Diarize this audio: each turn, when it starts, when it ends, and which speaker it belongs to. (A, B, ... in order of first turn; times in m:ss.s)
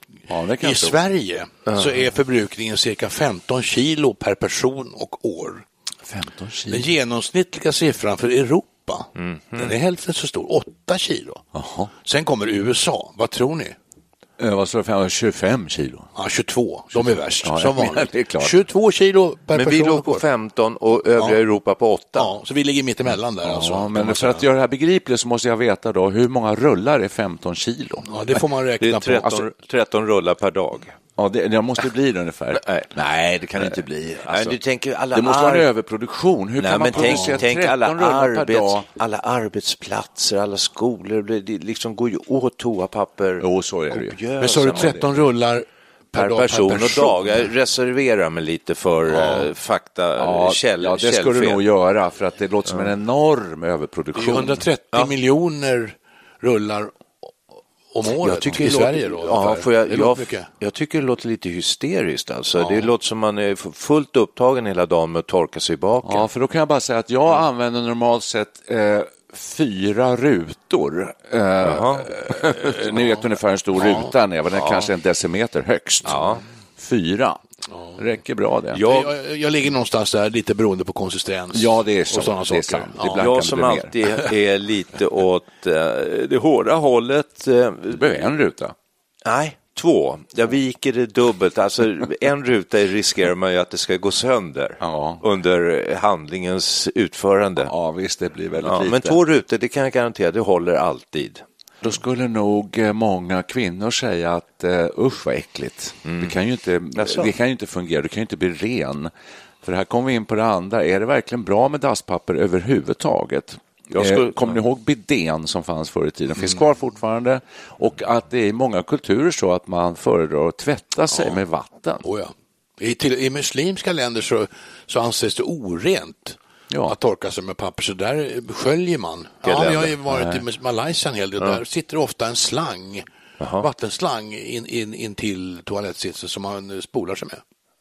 0:00.3-0:01.0 A
0:00.6-0:05.6 B
0:06.1-0:06.9 A
0:06.7-0:11.4 B
0:09.2-0:09.7 C
0:11.5-0:11.9 A
0:12.0-0:13.8 B
0:14.4-0:16.1 A
0:16.2-0:20.2 B
0:16.9-0:18.6 A
0:19.5-0:22.3 C
0:22.2-0:24.4 B
0:23.4-0:28.1 A
0:28.0-0:29.4 B
0:28.8-0:31.0 C
0:31.2-0:34.6 A
0:32.5-0:32.9 C
0:33.5-0:35.7 C
0:35.1-0:38.8 A
0:36.6-0:45.0 C
0:37.0-0:37.4 B
0:43.4-0:44.2 A
0:44.4-0:47.5 B
0:44.7-0:45.1 A
0:46.1-0:51.6 C
0:49.2-0:49.4 A
0:50.2-0:54.6 A
0:54.2-0:56.9 B
0:57.9-1:00.5 B
0:58.2-1:06.3 C
1:02.6-1:02.9 B
1:06.0-1:16.2 A
1:11.6-1:12.7 C
1:14.6-1:14.9 C
1:16.0-1:16.4 C
1:16.8-1:17.4 A
1:17.7-1:18.0 B
1:18.0-1:18.8 A
1:18.7-1:19.1 C
1:18.7-1:23.2 B
1:21.5-1:23.9 A
1:23.2-1:28.2 C
1:27.9-1:28.7 A
1:29.2-1:37.7 C
1:34.8-1:35.2 A
1:37.6-1:39.2 A
1:38.6-1:41.4 C
1:41.8-1:49.1 A
1:46.0-1:46.4 C
1:47.0-1:47.3 C
1:49.6-2:02.0 A
1:53.9-1:54.6 C
2:01.1-2:01.4 B
2:02.0-2:06.4 B
2:06.7-2:07.0 A
2:06.9-2:13.0 B
2:09.4-2:09.9 C
2:10.1-2:10.4 A
2:13.4-2:13.7 C
2:13.6-2:17.4 B